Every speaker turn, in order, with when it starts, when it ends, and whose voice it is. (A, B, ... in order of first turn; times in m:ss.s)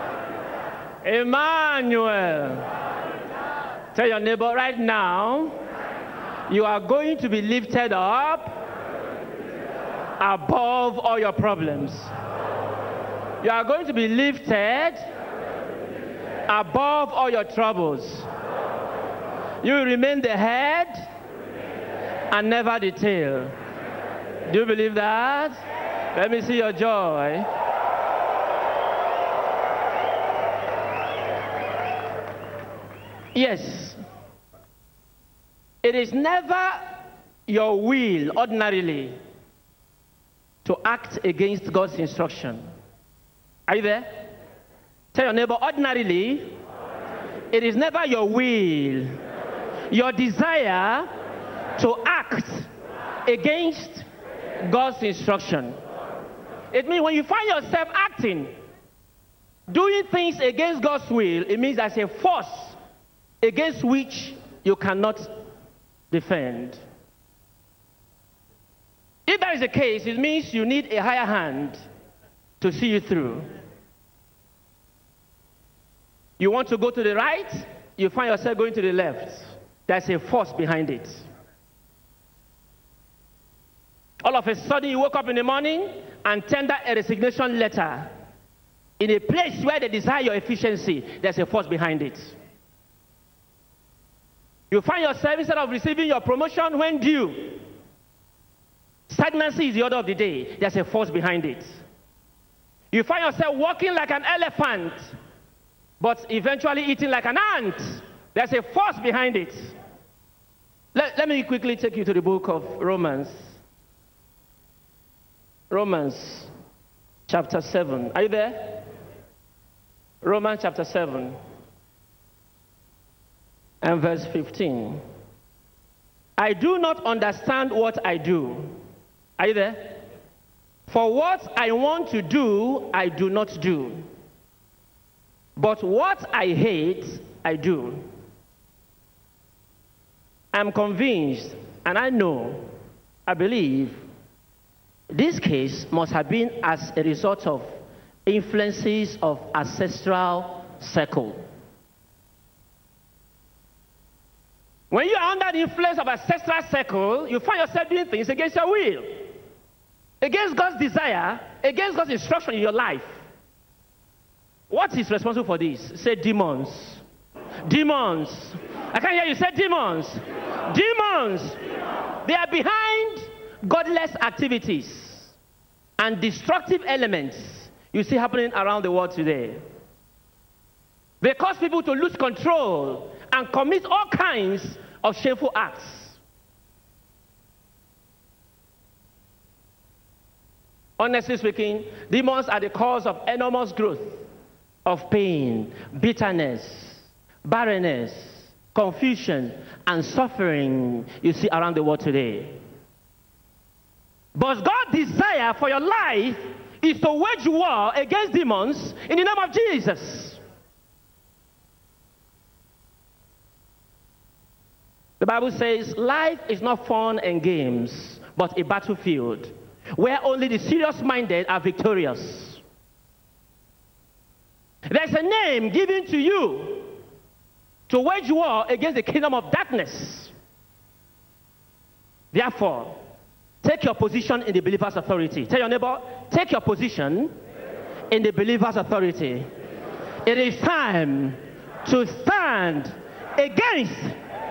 0:01.0-0:02.7 A
0:03.9-0:05.6 A
0:06.5-0:08.6 A
0:10.2-0:12.1 A
0:13.4-0:15.1 A
0:16.5-0:18.3 A
0:19.6-0:21.1 A
0:22.3-0:23.6 A
0:24.5-0:25.6 A
0:26.1-0:27.5 A
0:33.3-0:34.0 A
0:35.8-0:39.2 A
0:40.6-0:42.7 A
0:43.7-0:44.3 A
0:45.1-0:46.6 A
0:47.5-0:49.2 A
0:49.9-0:51.1 A
0:51.8-0:52.7 A
0:53.3-0:54.1 A
0:54.6-0:55.8 A
0:56.7-0:58.5 A
0:59.7-1:02.8 A
1:03.4-1:05.3 A
1:06.1-1:06.8 A
1:09.3-1:11.8 A
1:12.6-1:13.5 A
1:16.4-1:21.3 A
1:24.2-1:28.1 A
1:29.0-1:32.4 A
1:34.7-1:37.6 A
1:39.1-1:41.8 A
1:42.9-1:45.1 A
1:46.0-1:49.8 A
1:50.9-1:53.6 A
1:55.7-1:56.5 A
1:57.3-1:58.9 A
2:00.2-2:01.4 A
2:03.8-2:05.0 A
2:06.4-2:08.8 A
2:09.4-2:10.0 A
2:10.9-2:14.1 A
2:15.6-2:18.1 A
2:20.5-2:22.7 A
2:23.3-2:24.0 A
2:25.1-2:31.4 A
2:34.9-2:39.3 A
2:40.2-2:43.2 A
2:44.7-2:47.0 A
2:47.6-2:51.6 A
2:52.2-2:55.3 A
2:56.0-2:59.6 A
3:01.2-3:06.2 A
3:11.0-3:14.2 A
3:14.8-3:22.6 A
3:24.4-3:30.4 A
3:35.2-3:42.6 A
3:44.9-3:46.9 A
3:47.9-3:50.3 A
3:52.3-3:53.0 A
3:53.6-3:57.4 A
3:58.1-3:59.5 A
4:00.2-4:04.2 A